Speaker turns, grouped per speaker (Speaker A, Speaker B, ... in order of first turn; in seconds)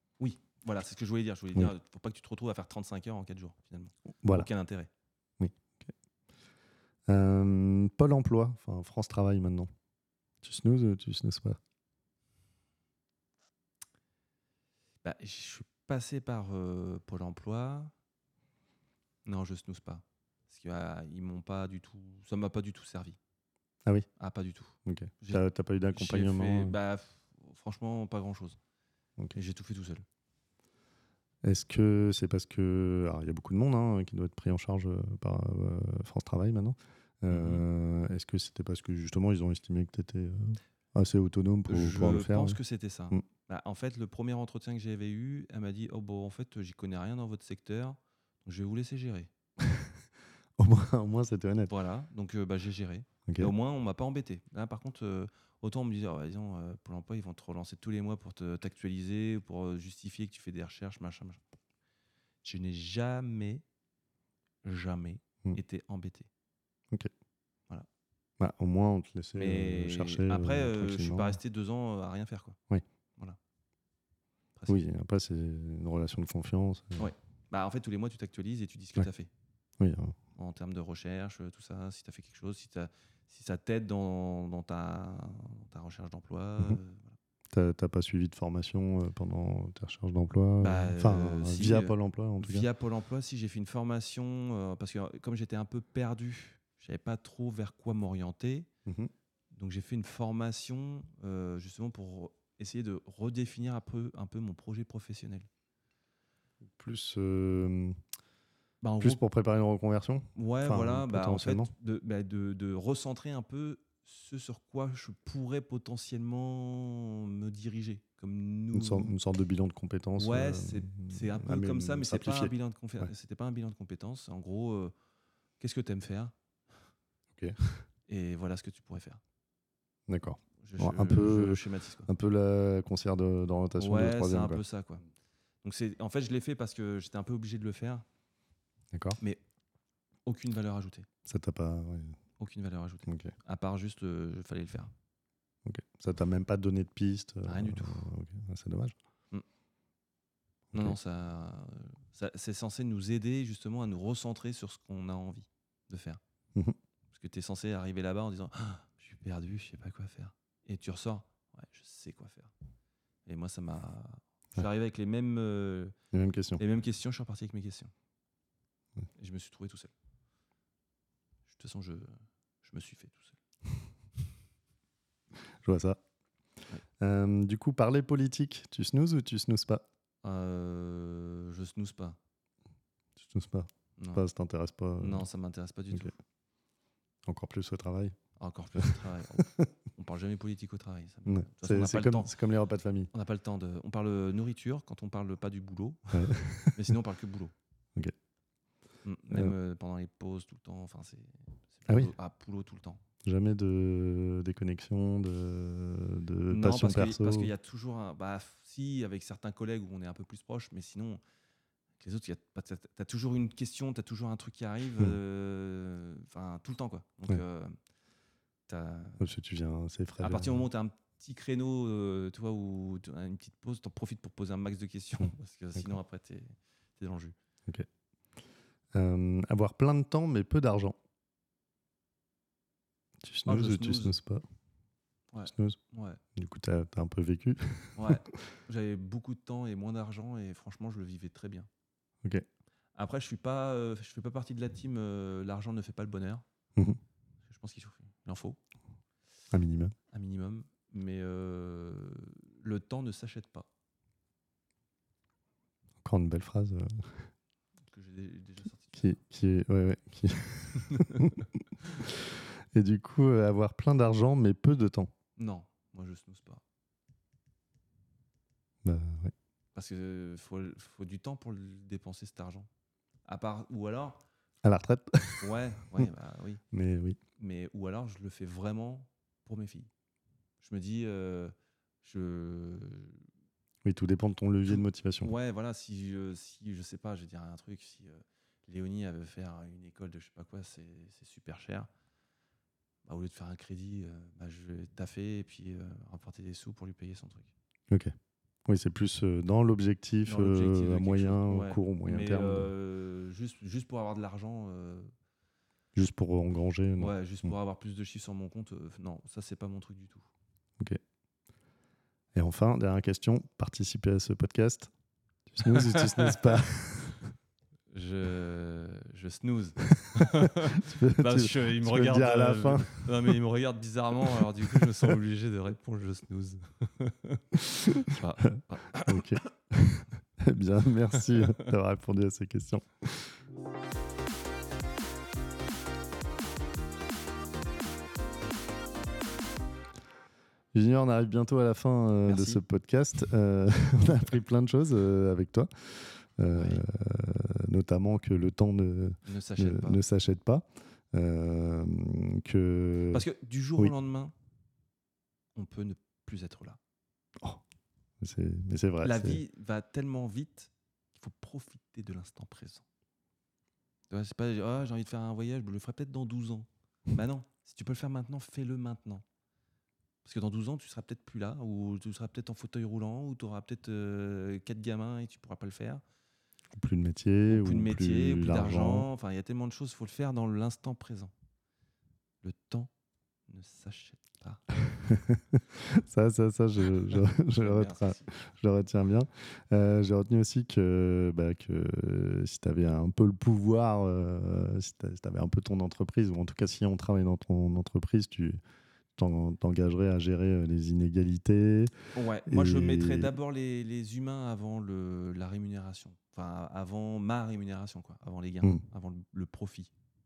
Speaker A: 0.2-4.9, 15.0-17.9, 19.2-23.2, 24.2-25.4, 25.9-28.6, 29.3-30.0, 37.3-37.6, 41.7-49.3, 51.7-61.4, 62.4-63.6, 64.6-66.3, 69.3-72.6, 74.5-74.8, 77.0-79.3, 80.3-87.2, 90.6-98.7, 99.5-105.5, 108.8-109.2, 110.3-119.1, 120.2-124.9, 125.6-126.3, 128.1-129.2, 130.6-132.1, 133.8-135.0, 135.6-138.0, 140.2-141.1, 142.4-144.9, 147.4-148.1, 150.7-156.2, 157.1-162.5, 163.2-165.9, 166.6-167.9, 169.2-169.9, 171.5-173.4, 180.2-182.2, 184.0-184.2, 185.0-186.1, 188.4-192.3, 193.1-197.5, 199.0-203.0, 206.5-211.2, 212.0-217.8, 218.7-219.2, 220.2-227.3, 233.4-234.2, 235.3-236.2, 237.9-241.7, 242.9-246.4, 247.4-248.6, 250.1-253.7, 257.9-259.2, 260.9-262.0, 265.4-266.6, 269.7-272.7, 273.2-274.2, 275.4-276.6, 277.4-279.9, 280.6-283.2, 284.7-291.9, 293.1-297.5, 300.2-305.1, 307.0-310.3, 315.6-316.4, 317.9-327.4, 328.0-329.5, 331.3-331.6, 342.2-342.6, 346.5-346.8, 349.2-350.0, 353.1-354.3, 355.5-356.8, 359.0-362.8, 364.1-369.2, 370.2-376.0, 377.5-381.3, 382.4-382.9, 383.5-384.7, 387.5-388.3, 402.1-409.9
Speaker B: 4.2-4.5, 5.4-5.9, 7.1-9.7, 10.4-11.6, 24.8-26.8, 31.4-42.6, 49.6-49.9, 50.6-51.7, 53.3-53.5, 68.4-71.4, 74.7-77.1, 79.8-80.1, 87.5-92.7, 98.8-99.1, 106.7-108.0, 109.0-111.7, 118.7-123.1, 127.3-127.8, 130.1-134.6, 138.9-139.2, 141.2-142.2, 143.1-143.3, 145.6-148.9, 166.1-166.6, 175.3-176.0, 177.0-179.8, 183.2-185.2, 187.2-188.2, 188.8-189.7, 191.2-193.1, 196.1-196.9, 199.3-199.5, 203.2-207.5, 219.2-220.7, 228.9-231.0, 233.2-234.4, 235.4-235.8, 236.3-238.4, 249.5-249.9, 256.0-257.3, 258.9-261.5, 262.1-265.1, 268.8-269.3, 274.6-276.1, 276.7-277.2, 283.8-285.3, 297.9-298.1, 298.6-302.7, 305.9-307.5, 312.3-314.9, 315.5-317.3, 320.0-323.3, 329.0-333.4, 340.7-353.2, 358.2-359.4, 376.7-379.1, 385.0-398.6, 399.1-403.3